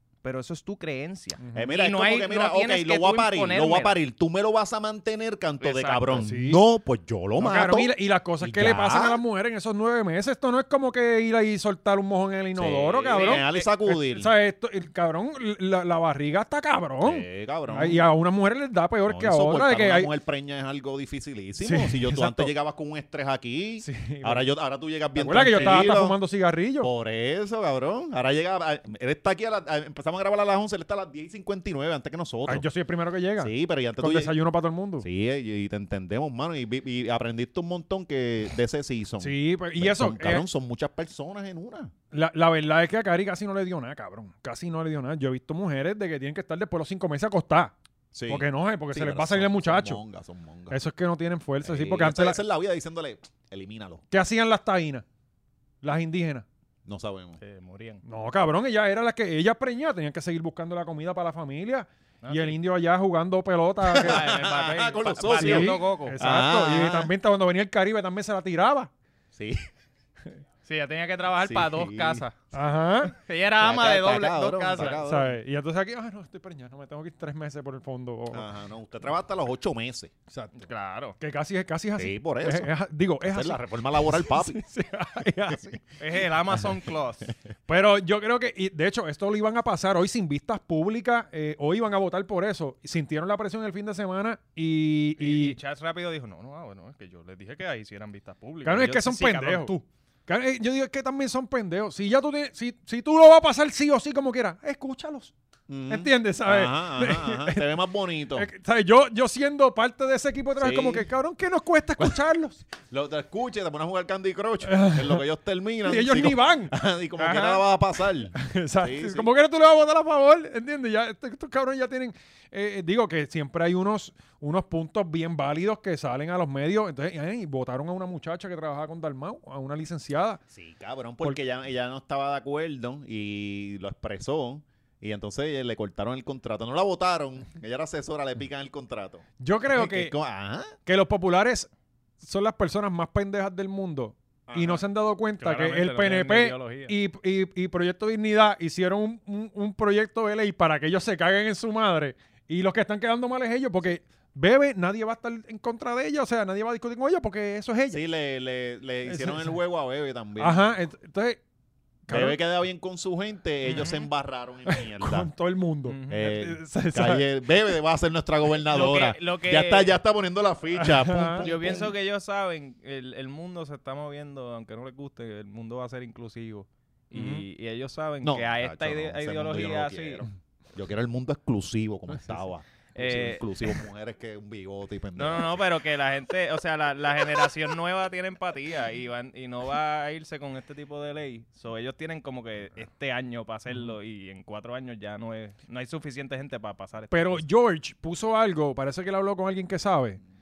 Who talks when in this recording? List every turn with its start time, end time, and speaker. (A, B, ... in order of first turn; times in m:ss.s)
0:00.2-0:04.0 A
0:01.4-0:01.7 B
0:01.5-0:09.2 C
0:05.6-0:06.2 A
0:06.2-0:06.6 B
0:07.4-0:20.1 B
0:12.5-0:14.3 C
0:13.1-0:13.7 A
0:17.0-0:18.0 C
0:19.1-0:26.2 C
0:21.6-0:22.5 B
0:23.8-0:24.4 B
0:25.1-0:26.9 B
0:26.8-0:32.6 C
0:32.4-0:35.0 B
0:33.4-0:34.3 C
0:35.0-0:41.9 C
0:39.2-0:40.4 B
0:42.1-0:47.7 B
0:48.1-0:50.8 C
0:48.3-0:50.0 B
0:50.7-0:52.4 B
0:51.6-0:54.0 C
0:54.1-0:55.0 B
0:55.8-0:56.4 B
0:56.8-0:57.4 C
0:57.4-0:58.0 A
0:58.0-1:04.2 B
1:02.2-1:02.6 A
1:03.9-1:07.1 C
1:03.9-1:06.2 A
1:05.3-1:08.9 B
1:09.3-1:09.6 C
1:10.6-1:12.3 A
1:11.4-1:12.2 C
1:12.5-1:13.1 B
1:13.1-1:15.0 A
1:13.6-1:15.3 C
1:14.8-1:18.5 B
1:18.3-1:20.1 C
1:20.3-1:20.6 B
1:20.6-1:21.2 A
1:21.2-1:25.8 B
1:22.0-1:22.7 C
1:23.2-1:24.6 C
1:26.0-1:27.3 A
1:27.7-1:35.6 B
1:35.2-1:39.8 A
1:38.6-1:39.7 B
1:40.3-1:45.3 B
1:45.7-1:48.5 C
1:45.9-1:47.7 B
1:48.3-1:52.6 B
1:50.6-1:51.1 C
1:52.9-1:59.3 C
1:54.6-1:55.2 B
1:55.8-1:56.7 B
1:57.2-1:57.6 A
1:58.3-2:10.4 B
2:10.5-2:20.8 C
2:19.4-2:20.1 B
2:20.8-2:21.7 B
2:22.2-2:38.0 B
2:24.5-2:24.8 C
2:25.4-2:26.9 A
2:37.9-2:40.6 C
2:39.0-2:39.6 B
2:40.4-2:41.4 B
2:42.1-2:42.4 B
2:42.1-2:45.3 C
2:43.6-2:44.1 A
2:44.6-2:47.3 B
2:45.9-2:46.3 A
2:46.1-2:51.9 C
2:48.6-2:50.0 A
2:50.8-2:51.5 B
2:51.4-3:00.2 A
2:57.1-2:57.4 B
2:58.2-3:05.6 C
3:02.9-3:03.8 A
3:05.2-3:17.4 A
3:17.1-3:20.2 B